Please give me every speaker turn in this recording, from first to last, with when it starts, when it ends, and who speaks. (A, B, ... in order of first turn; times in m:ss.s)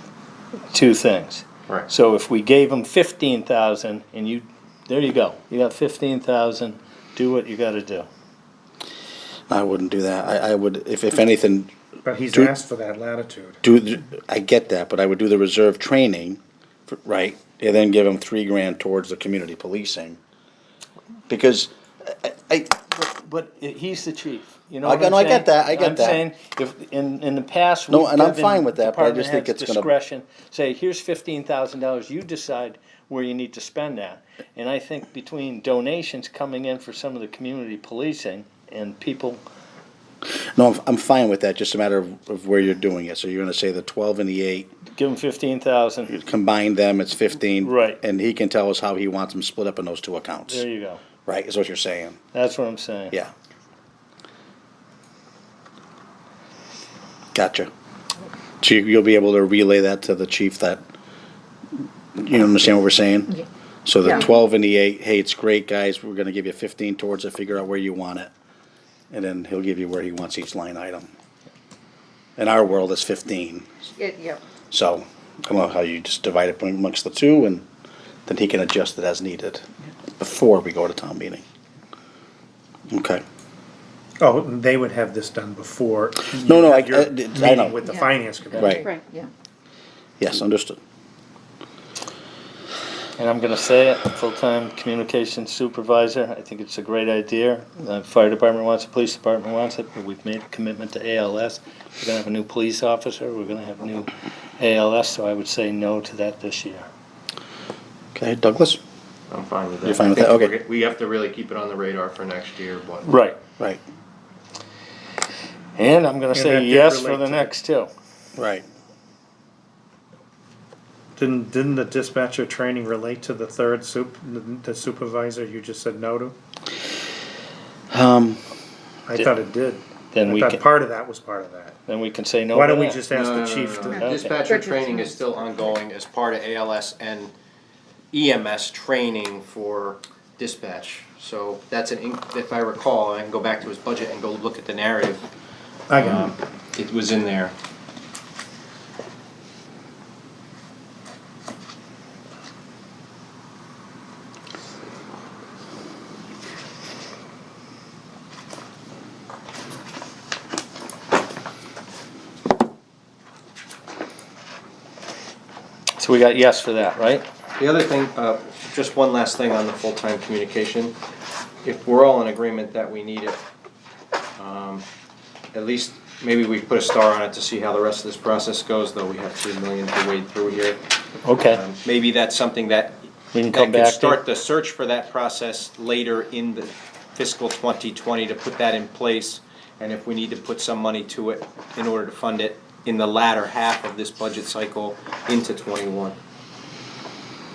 0:00.7-0:08.1 A
0:09.5-0:11.7 B
0:12.0-0:13.6 C
0:13.6-0:20.2 B
0:21.3-0:22.7 B
0:22.9-0:39.4 A
0:24.8-0:26.2 B
0:27.9-0:29.9 B
0:40.3-0:44.7 B
0:44.9-0:46.1 A
0:46.1-0:50.6 B
0:47.6-0:48.0 A
0:50.5-0:51.0 A
0:51.2-0:52.2 B
0:52.3-0:53.2 A
0:57.3-0:57.7 B
0:58.6-1:00.8 B
1:02.2-1:08.3 B
1:09.1-1:11.1 B
1:12.4-1:13.7 B
1:14.0-1:14.4 D
1:14.7-1:17.6 B
1:18.3-1:19.6 B
1:20.2-1:21.4 B
1:22.9-1:23.2 B
1:24.2-1:28.9 C
1:26.3-1:27.8 B
1:27.8-1:29.3 D
1:28.5-1:28.8 B
1:30.2-1:30.8 B
1:33.2-1:46.9 A
1:48.1-1:48.8 B
1:49.3-1:53.1 E
1:49.8-1:50.5 B
1:53.0-1:53.4 A
1:55.8-1:57.9 A
1:56.3-1:57.5 C
1:58.4-1:58.6 B
2:01.2-2:06.4 C
2:07.9-2:08.4 B
2:09.1-2:11.8 C
2:10.1-2:10.6 A
2:11.8-2:13.0 A
2:12.5-2:14.2 C
2:13.1-2:17.3 E
2:13.8-2:14.4 A
2:14.2-2:15.1 D
2:18.1-2:25.2 E
2:25.9-2:26.3 C
2:25.9-2:27.5 E
2:46.0-2:47.2 A
2:47.6-2:50.9 E
2:51.6-2:53.4 E
2:54.4-2:54.8 E
2:55.5-3:00.8 E
3:01.2-3:01.6 A
3:01.5-3:16.2 E
3:03.3-3:04.2 A